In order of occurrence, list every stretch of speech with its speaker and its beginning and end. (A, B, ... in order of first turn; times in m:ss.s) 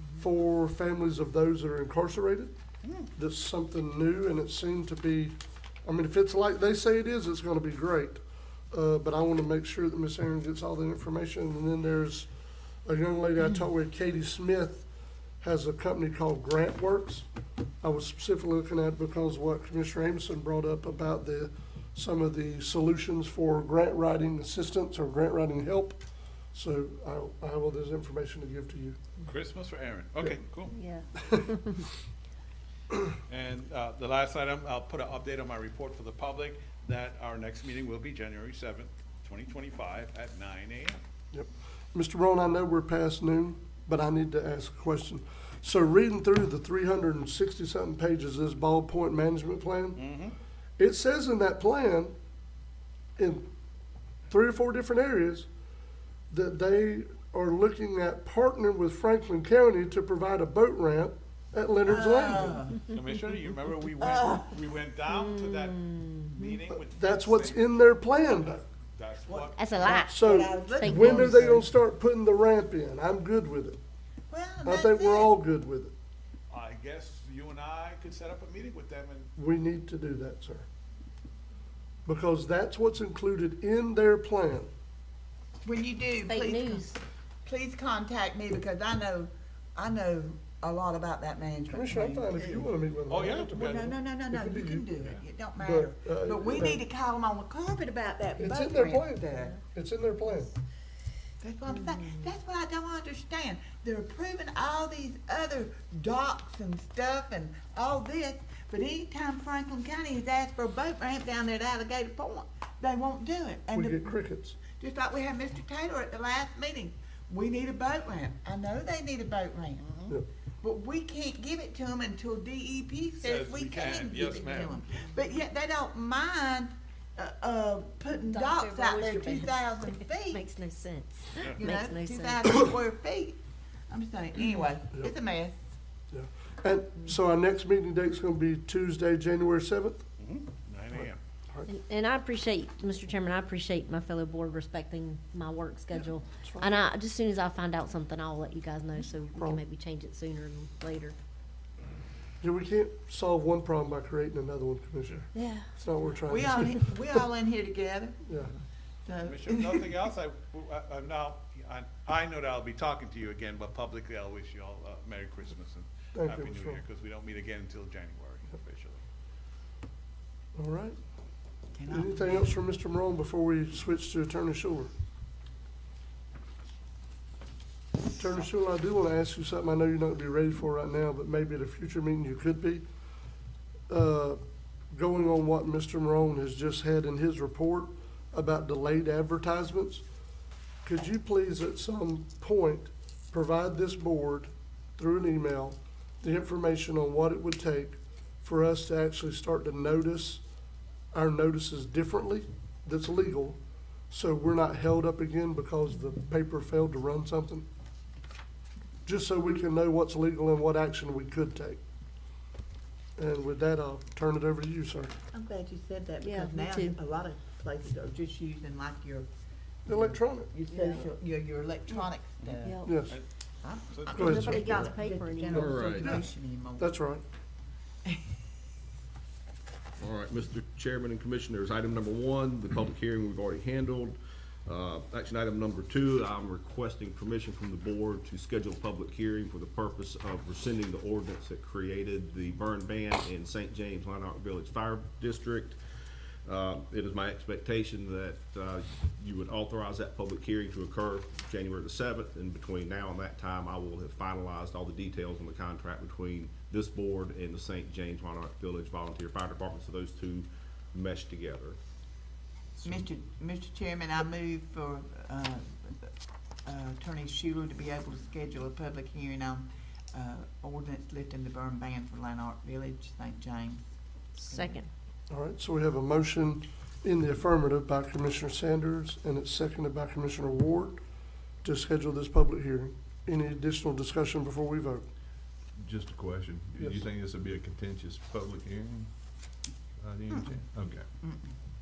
0:00.2-0:02.5 A
0:03.2-0:12.3 A
0:12.8-0:14.9 A
0:15.4-0:17.3 A
0:17.8-0:26.0 A
0:26.5-0:29.0 A
0:29.2-0:30.8 B
0:30.7-0:31.9 C
0:31.2-0:31.4 A
0:33.3-0:41.0 B
0:41.3-0:50.0 A
0:50.0-0:50.4 B
0:50.8-0:52.1 A
0:53.2-0:53.5 A
0:54.3-0:55.5 A
0:56.3-1:02.6 A
1:01.8-1:02.9 D
1:02.9-1:09.7 B
1:04.0-1:04.5 D
1:05.1-1:06.4 C
1:07.0-1:08.6 A
1:09.3-1:11.6 D
1:09.6-1:11.6 C
1:10.1-1:13.8 A
1:14.3-1:15.4 D
1:14.6-1:15.9 A
1:16.5-1:19.3 B
1:19.4-1:20.7 A
1:22.1-1:24.7 A
1:25.6-1:32.7 D
1:26.2-1:27.0 C
1:31.7-1:34.9 A
1:33.1-1:33.9 B
1:33.5-1:39.6 D
1:35.6-1:36.8 A
1:38.4-1:40.5 A
1:41.4-1:54.2 D
1:53.7-1:54.6 A
1:54.7-1:59.8 D
1:59.8-2:00.1 B
2:00.6-2:10.4 D
2:03.2-2:04.9 B
2:08.1-2:12.7 C
2:11.5-2:15.6 D
2:16.1-2:20.0 A
2:20.2-2:21.2 B
2:21.7-2:31.2 C
2:26.0-2:26.8 A
2:29.3-2:29.6 A
2:32.4-2:36.9 A
2:35.3-2:35.7 C
2:36.3-2:38.2 D
2:38.3-2:38.5 A
2:39.0-2:39.9 D
2:39.2-2:49.0 B
2:46.2-2:46.8 A
2:50.6-2:51.0 A
2:51.7-2:52.4 D
2:51.9-2:54.9 A
2:58.2-3:02.8 A
3:03.9-3:04.4 A
3:04.9-3:10.0 A
3:10.8-3:20.4 A
3:21.1-3:23.6 A
3:24.1-3:27.7 A
3:29.0-3:31.8 A
3:33.2-3:35.1 A
3:35.3-3:39.3 D
3:36.2-3:37.0 C
3:39.9-3:40.5 A
3:39.9-3:42.8 D
3:40.7-3:41.0 C
3:42.6-3:43.0 C
3:42.8-3:43.1 A
3:43.6-3:46.9 D
3:43.9-3:44.3 B
3:44.1-3:44.7 A
3:44.1-3:46.1 C
3:45.5-3:46.2 E
3:45.6-3:47.2 A
3:50.0-4:05.8 E
4:06.4-4:21.8 E
4:22.8-4:26.1 D
4:26.6-4:33.8 D
4:34.4-4:34.9 C
4:34.5-4:34.8 D
4:35.3-4:41.0 A
4:41.6-4:45.0 A
4:45.8-4:49.1 F
4:50.0-4:51.1 F
4:50.3-4:50.6 D
4:51.2-4:51.5 D